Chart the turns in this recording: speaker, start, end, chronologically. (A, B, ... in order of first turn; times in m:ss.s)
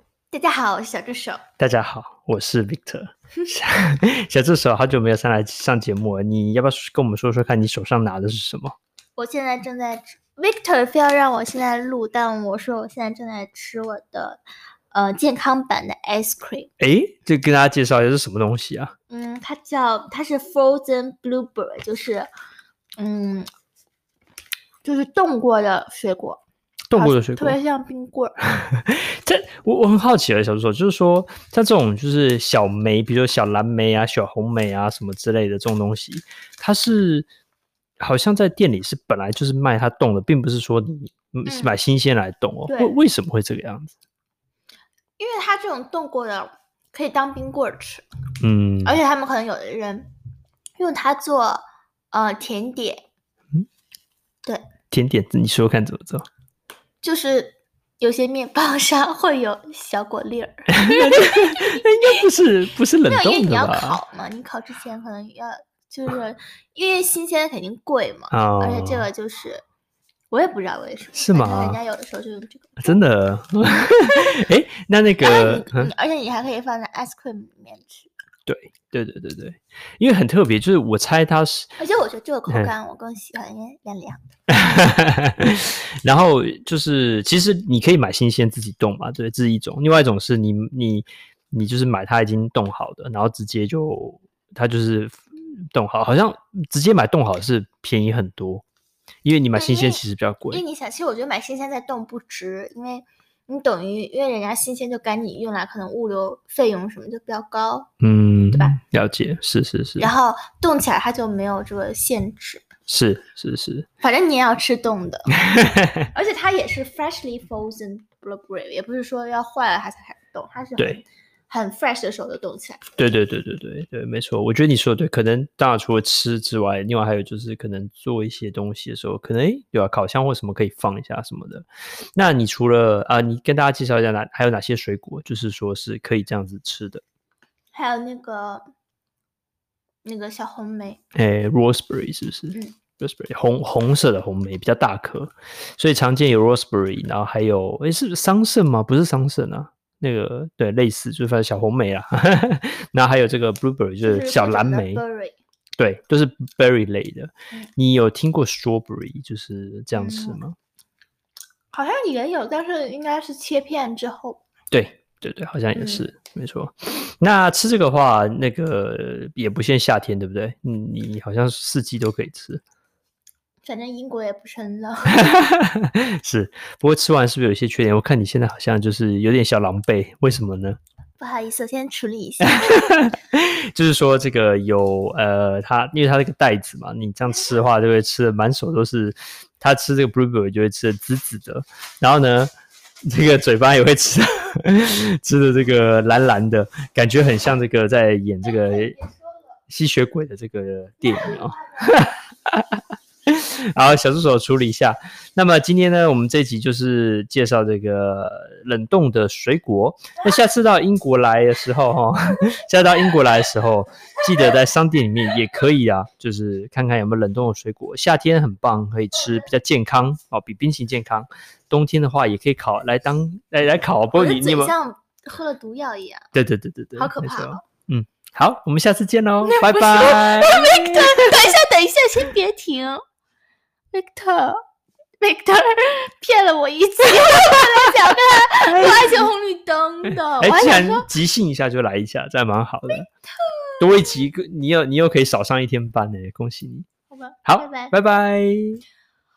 0:00.3-0:01.4 A
0:01.6-0:08.8 B
0:09.2-0:16.7 A
0:16.8-0:18.9 B
0:19.1-0:22.3 A
0:23.0-0:23.5 A
0:24.8-0:26.4 A
0:26.9-0:27.6 B
0:26.9-0:28.3 A
0:28.7-0:37.3 B
0:38.0-0:43.9 B
0:41.4-0:41.7 A
0:42.7-0:42.9 A
0:45.2-0:48.0 A
0:48.4-0:49.0 B
0:48.8-0:50.1 A
0:50.8-0:53.1 A
0:54.9-0:56.3 B
0:57.0-1:02.2 A
1:00.7-1:04.0 B
1:03.0-1:09.6 A
1:08.3-1:09.0 B
1:10.3-1:13.0 A
1:11.1-1:11.8 B
1:12.8-1:15.9 B
1:15.2-1:18.1 A
1:18.4-1:21.7 B
1:21.8-1:24.2 A
1:24.5-1:38.6 B
1:39.2-1:40.6 B
1:39.5-1:47.9 A
1:48.0-1:50.1 B
1:50.0-1:52.6 A
1:52.9-1:53.9 B
1:54.0-1:55.3 A
1:55.4-1:56.1 B
1:56.1-2:02.8 A
2:03.0-2:11.6 B
2:12.2-2:17.0 B
2:17.7-2:18.7 A
2:20.0-2:21.0 A
2:21.1-2:35.0 B
2:34.0-2:35.4 A
2:35.8-2:40.6 B
2:40.0-2:40.4 A
2:41.7-2:44.4 A
2:44.7-2:52.6 B
2:45.7-2:46.0 A
2:53.6-2:55.3 A
2:55.1-3:00.8 B
3:01.2-3:02.8 A
3:02.7-3:12.5 B
3:13.0-3:19.0 B
3:19.7-3:44.7 B
3:44.1-3:46.3 A
3:46.3-3:51.3 B
3:47.0-3:47.6 A
3:49.4-3:53.0 A
3:53.9-3:54.6 A
3:55.2-4:01.1 A
3:58.8-3:59.2 B
4:00.4-4:03.0 B
4:02.9-4:03.8 A
4:03.8-4:06.9 B
4:07.1-4:07.9 A
4:07.4-4:08.8 B